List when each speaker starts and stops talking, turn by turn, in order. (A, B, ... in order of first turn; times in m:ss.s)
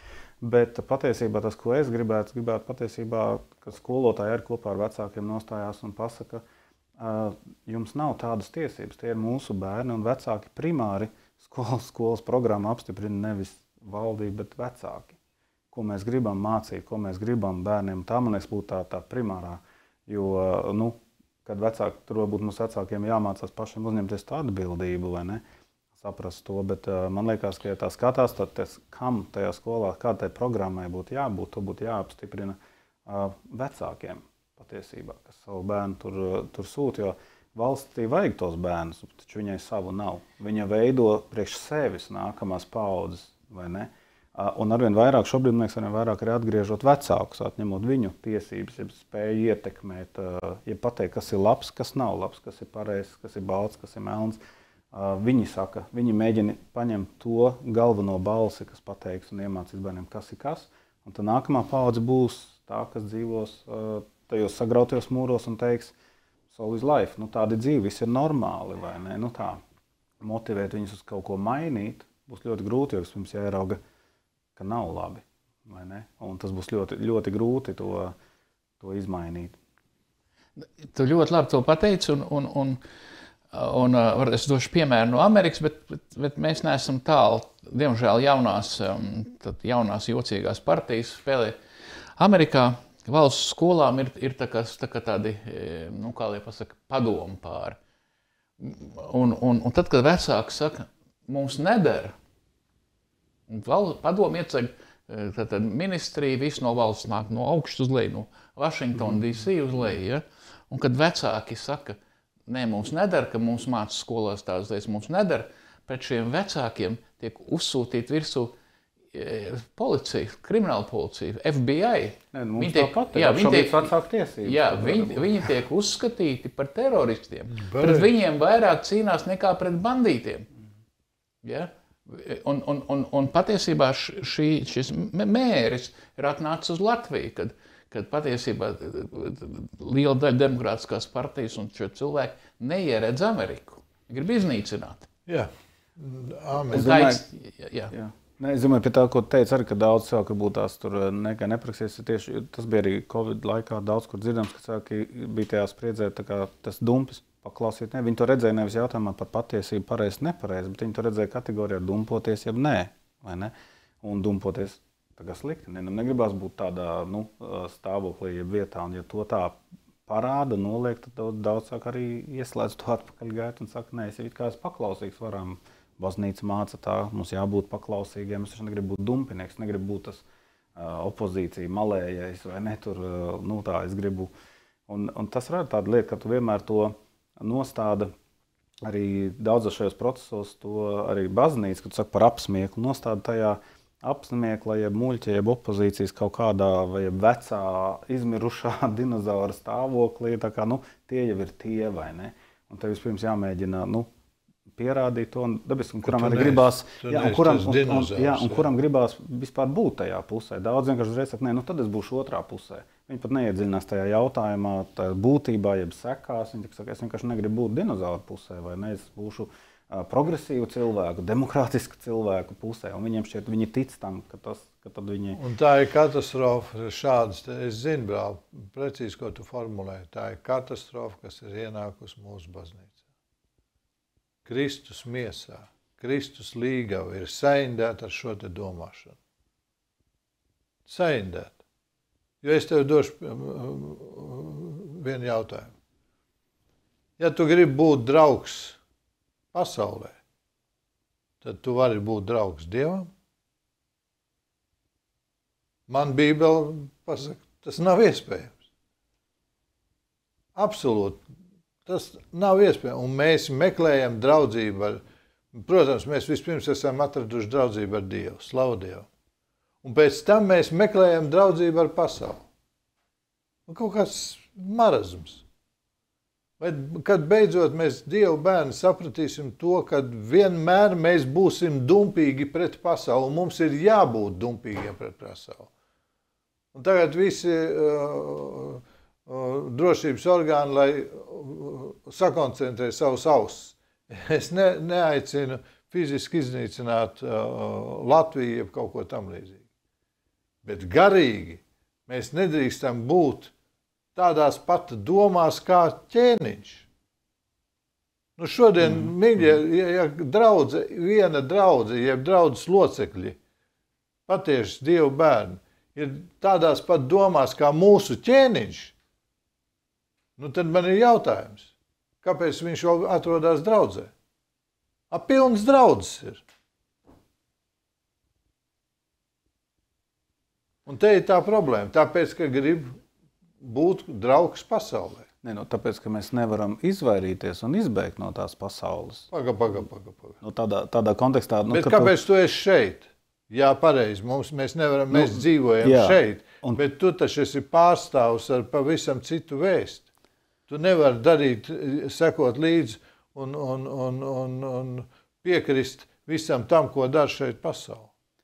0:00.4-0:06.4 A
0:07.0-0:15.2 A
0:15.7-0:25.4 A
0:26.0-0:54.4 A
0:54.9-1:05.9 A
1:06.5-1:09.6 A
1:10.2-1:13.8 A
1:14.6-1:18.2 A
1:18.8-1:19.6 A
1:20.6-1:22.8 B
1:23.5-1:31.6 B
1:32.2-1:37.8 B
1:38.6-1:42.2 B
1:43.5-1:58.6 B
1:59.1-2:03.9 B
2:02.3-2:05.5 A
2:04.4-2:10.5 B
2:07.5-2:08.1 C
2:11.4-2:25.1 B
2:25.3-2:27.1 C
2:26.7-2:27.2 A
2:26.7-2:27.9 B
2:27.9-3:00.2 A
3:00.8-3:04.3 A
3:04.9-3:08.1 A
3:08.8-3:24.1 A
3:24.7-3:45.4 A
3:26.0-3:28.7 C
3:45.4-3:53.0 C
3:54.4-3:59.2 C
4:00.9-4:01.6 C
4:02.4-4:05.7 C
4:07.2-4:08.8 C
4:09.5-4:10.2 C
4:11.4-4:13.1 C
4:15.9-4:18.6 C
4:20.6-4:21.2 C
4:21.9-4:29.1 C
4:29.8-4:32.4 C
4:33.7-4:35.4 C
4:36.6-4:45.7 C
4:46.7-4:59.6 C
5:00.6-5:03.5 C
5:04.2-5:06.9 C
5:08.4-5:13.4 C
5:14.3-5:19.0 C
5:20.4-5:24.1 C
5:25.1-5:26.4 C
5:30.9-5:33.0 C
5:33.6-5:35.3 C
5:35.4-5:39.3 A
5:39.3-5:40.4 C
5:40.4-5:42.2 A
5:41.7-5:50.1 C
5:45.1-5:46.8 A
5:50.7-5:58.1 C